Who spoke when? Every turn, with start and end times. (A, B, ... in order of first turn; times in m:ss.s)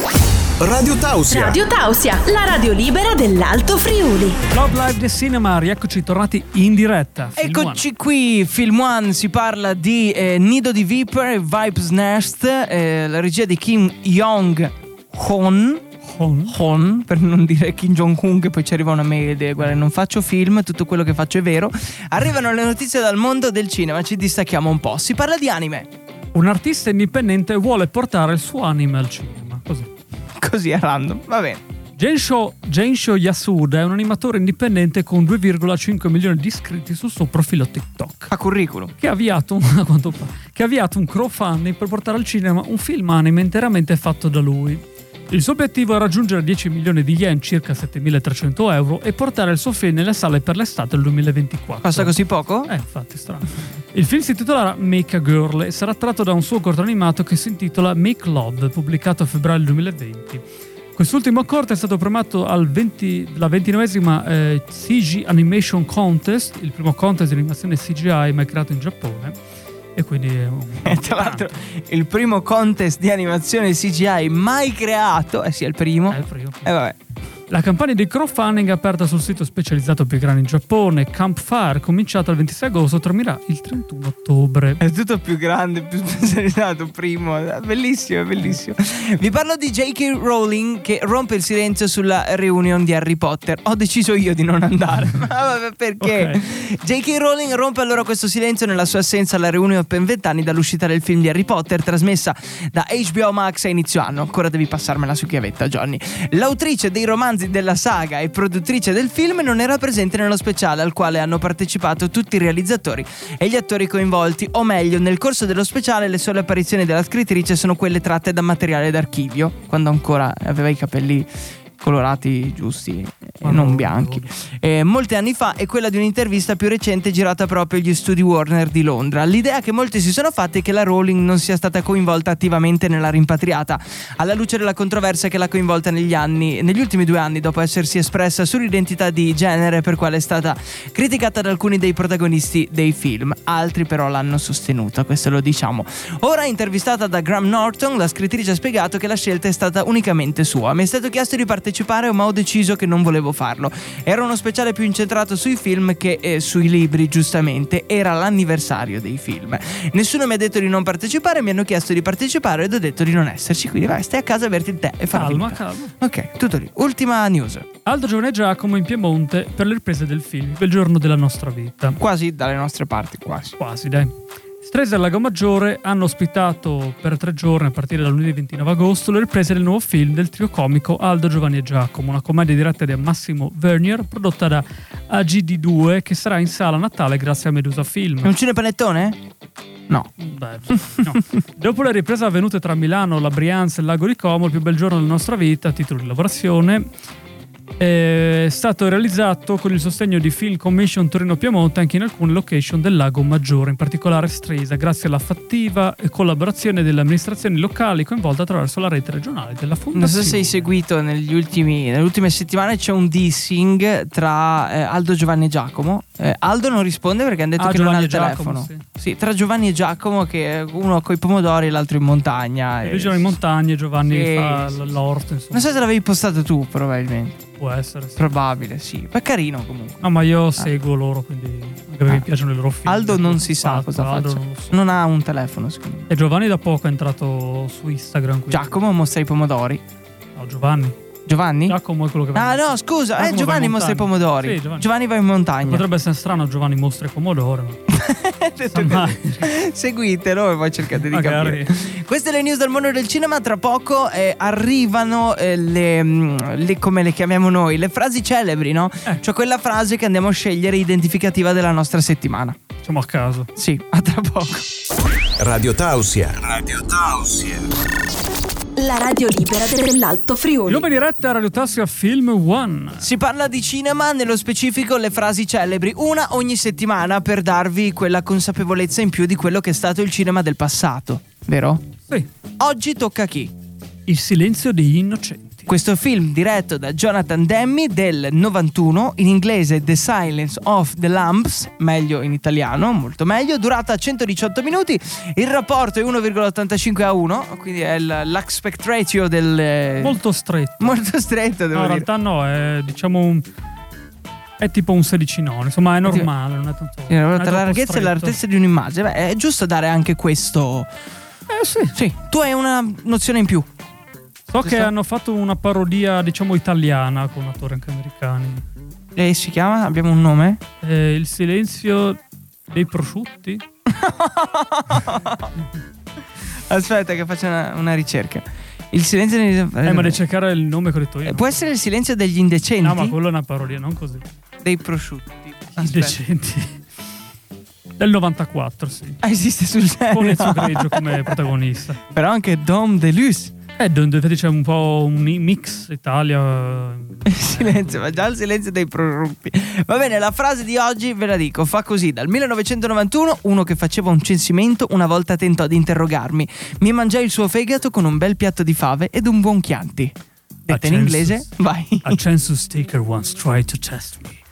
0:00.6-0:01.6 A
0:01.3-0:04.4 B
0:04.5-0:07.8 C
0:07.4-0:15.8 D
0:16.0-0:16.6 C
0:16.5-0:25.9 D
0:26.3-0:29.9 C
0:30.4-0:31.6 D
0:32.0-0:38.3 C
0:38.3-0:38.9 D
0:39.0-1:00.4 C
0:51.8-0:52.7 D
1:01.0-1:09.4 C
1:09.9-1:11.5 C
1:10.8-1:16.9 D
1:16.1-1:16.7 C
1:17.5-1:24.8 C
1:24.8-2:01.3 D
1:36.0-1:36.4 C
2:01.8-2:47.6 D
2:03.4-2:04.3 C
2:45.1-2:45.9 C
2:47.8-2:52.0 C
2:52.0-2:53.5 D
2:53.6-3:08.3 C
3:08.2-3:09.2 D
3:10.2-3:16.9 C
3:17.8-3:30.7 C
3:29.9-3:43.3 D
3:37.6-3:38.8 C
3:42.8-3:45.7 C
3:44.0-3:44.8 D
3:45.5-3:47.4 D
3:47.6-3:48.3 C
3:48.2-3:50.0 D
3:50.0-3:54.8 C
3:52.8-3:56.1 D
3:56.1-3:58.8 C
3:58.5-3:59.8 D
4:00.4-4:01.0 C
4:01.2-4:01.8 D
4:01.7-4:04.9 C
4:02.3-4:05.9 D
4:05.6-4:07.8 C
4:07.9-4:22.6 D
4:08.7-4:09.4 C
4:11.1-4:11.7 C
4:22.8-4:23.5 C
4:23.6-4:24.6 D
4:25.4-4:26.6 A
4:28.8-4:30.8 B
4:30.7-4:33.0 C
4:33.0-4:41.8 D
4:42.6-4:43.5 D
4:44.0-4:45.7 C
4:45.7-5:00.2 D
5:00.0-5:01.0 C
5:00.8-5:02.1 D
5:01.7-5:03.4 C
5:04.6-5:08.4 C
5:06.0-5:06.3 D
5:07.1-5:10.9 D
5:11.5-5:12.0 C
5:11.9-5:13.7 D
5:14.5-5:18.6 C
5:14.6-5:14.9 D
5:19.1-5:20.6 D
5:20.8-5:23.6 C
5:23.9-5:25.5 D
5:26.7-5:30.2 D
5:29.8-5:31.7 C
5:31.2-5:33.2 D
5:32.8-5:34.2 C
5:34.6-5:36.2 D
5:35.8-5:36.8 C
5:38.0-5:39.2 C
5:39.2-5:41.3 D
5:40.1-5:42.0 C
5:42.1-5:43.5 D
5:43.8-5:48.2 C
5:47.3-6:00.1 D
6:00.7-6:01.5 C
6:00.7-6:02.2 D
6:02.0-6:04.4 C